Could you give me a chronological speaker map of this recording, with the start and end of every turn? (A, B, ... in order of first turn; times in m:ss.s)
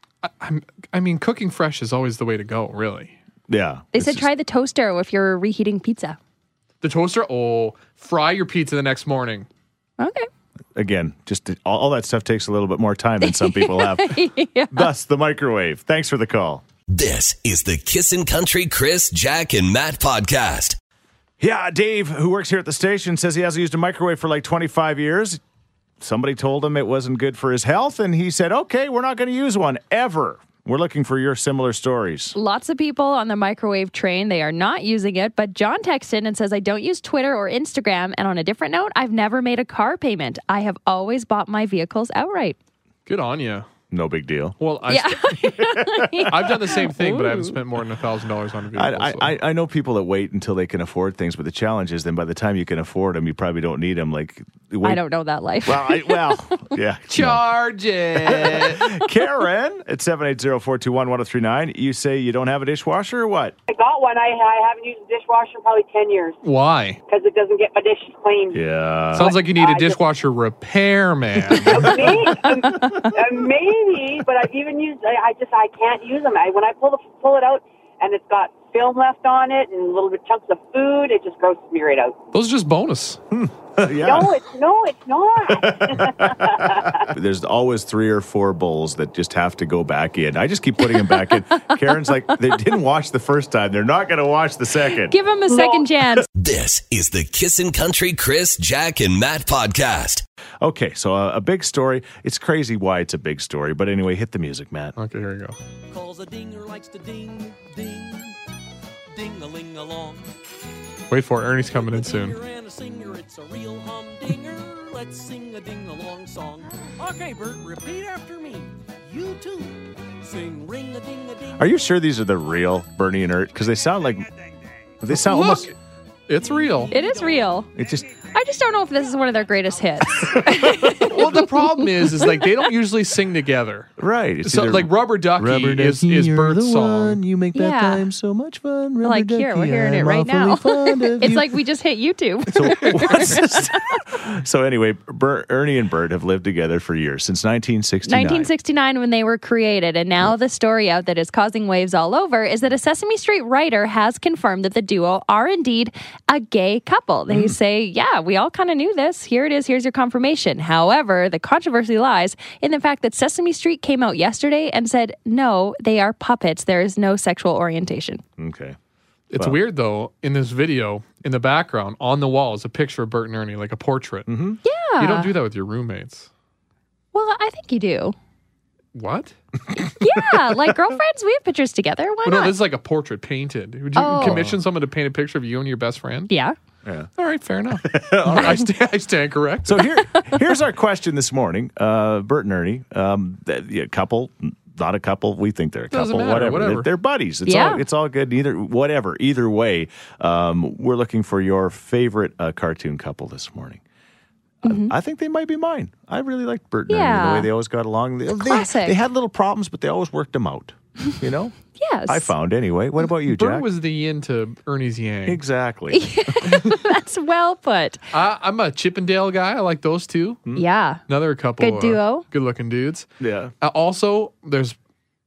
0:00.2-0:03.2 A
0:03.5-0:04.3 B
0:03.9-0:06.2 C
0:06.8-0:09.5 A
0:10.0-0:10.3 C
0:10.7-0:16.6 B
0:13.2-0:14.9 C
0:16.9-0:20.8 D
0:21.4-0:25.4 B
0:26.0-0:32.4 B
0:32.4-0:42.6 C
0:43.0-0:43.6 A
0:43.9-0:44.6 B
0:44.6-0:45.5 A
0:44.9-0:47.6 C
0:45.8-0:46.3 B
0:46.2-0:49.3 A
0:48.7-0:55.0 B
0:54.8-0:56.6 C
0:55.6-0:57.4 B
0:57.1-0:58.8 A
0:58.1-1:03.6 B
1:03.7-1:06.4 E
1:06.4-1:07.0 A
1:07.1-1:10.0 E
1:08.5-1:09.3 B
1:09.1-1:12.2 A
1:11.6-1:22.2 E
1:12.5-1:13.1 C
1:22.3-1:23.2 A
1:23.3-1:24.3 B
1:23.9-1:27.1 E
1:25.5-1:35.1 B
1:35.1-1:36.3 C
1:35.5-1:35.8 E
1:36.3-1:40.2 D
1:40.6-1:44.9 B
1:45.0-1:45.6 A
1:46.0-1:48.2 F
1:49.2-1:50.1 F
1:51.1-1:52.4 A
1:52.8-1:56.3 F
1:57.1-1:58.6 F
1:59.2-1:59.6 F
2:00.3-2:01.5 F
2:01.6-2:04.3 B
2:05.0-2:05.7 B
2:05.1-2:05.7 A
2:06.3-2:06.9 A
2:06.9-2:07.7 C
2:07.7-2:08.1 B
2:08.3-2:11.4 C
2:10.3-2:11.1 B
2:11.0-2:13.9 A
2:14.0-2:21.6 B
2:14.4-2:17.2 A
2:17.5-2:18.0 C
2:19.0-2:23.7 C
2:22.5-2:28.5 B
2:28.0-2:48.2 C
2:37.3-2:37.5 B
2:48.4-2:48.8 B
2:49.3-2:54.3 A
2:54.3-2:54.6 B
2:54.6-2:55.3 C
2:55.0-2:56.3 A
2:57.1-2:58.1 C
2:58.9-2:59.3 A
2:59.8-3:02.6 C
3:00.0-3:00.7 B
3:02.2-3:06.3 A
3:04.0-3:04.5 C
3:04.2-3:04.5 B
3:06.3-3:06.5 C
3:06.8-3:07.1 B
3:07.2-3:09.8 A
3:07.8-3:08.7 B
3:09.6-3:23.8 B
3:10.1-3:10.4 C
3:15.9-3:16.9 A
3:17.4-3:17.8 C
3:24.6-3:31.6 B
3:24.6-3:24.9 C
3:26.9-3:27.5 C
3:28.4-3:29.0 C
3:31.8-3:32.3 C
3:32.1-3:33.7 B
3:33.3-3:35.4 A
3:35.2-3:36.5 B
3:35.9-3:38.0 C
3:38.1-3:40.4 A
3:40.5-3:41.0 C
3:41.1-3:43.1 A
3:41.6-3:42.2 C
3:43.2-3:43.5 B
3:43.6-3:44.8 A